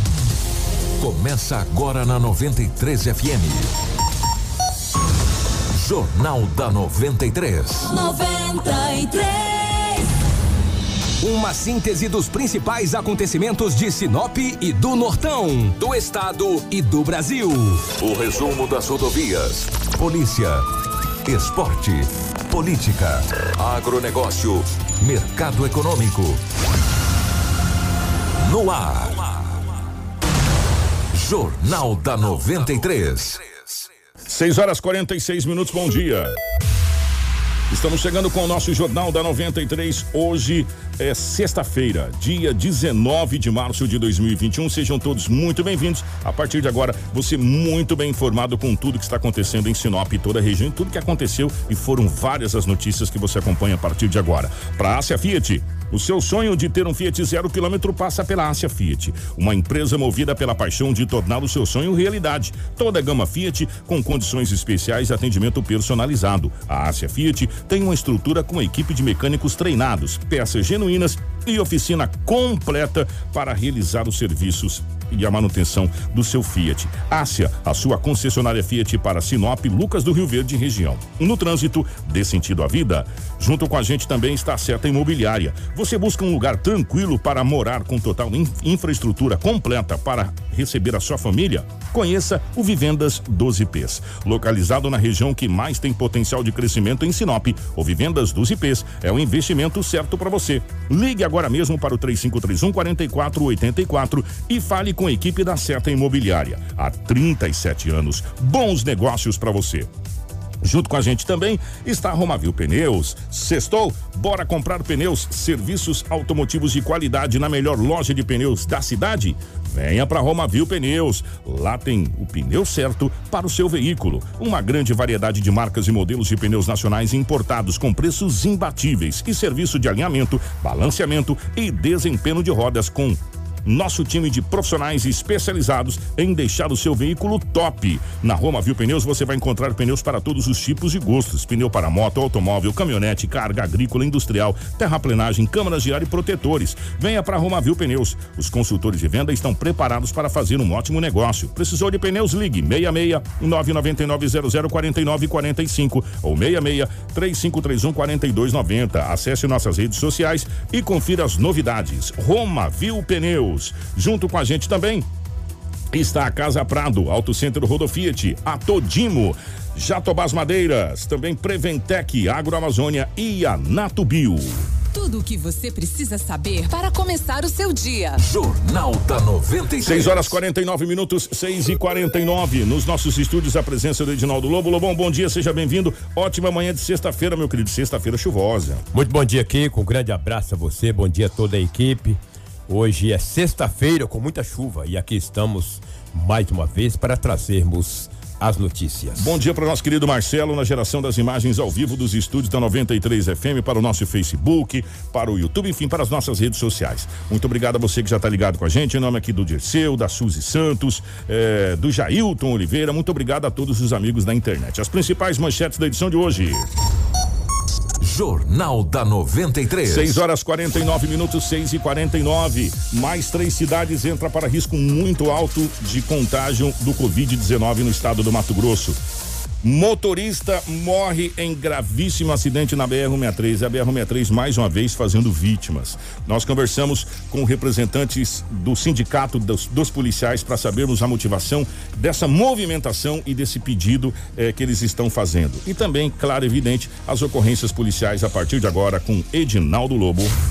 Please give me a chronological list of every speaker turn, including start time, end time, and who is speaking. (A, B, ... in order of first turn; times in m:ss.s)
0:01.0-0:03.7 A
0:05.7-0:07.9 A
0:07.8-0:10.0 B
0:11.2-0:17.9 C
0:17.9-0:20.6 A
0:21.2-0:26.4 A
0:28.4-0:29.4 A
0:31.1-0:33.9 A
0:34.2-0:36.3 D
0:37.7-1:49.9 D
1:50.6-2:45.1 D
2:45.9-2:54.7 D
2:54.9-2:58.2 E
2:58.2-3:00.4 A
2:59.8-3:08.8 D
3:08.9-3:19.4 F
3:19.2-3:36.7 D
3:38.0-3:40.2 A
3:39.8-3:49.0 D
3:49.6-4:10.3 D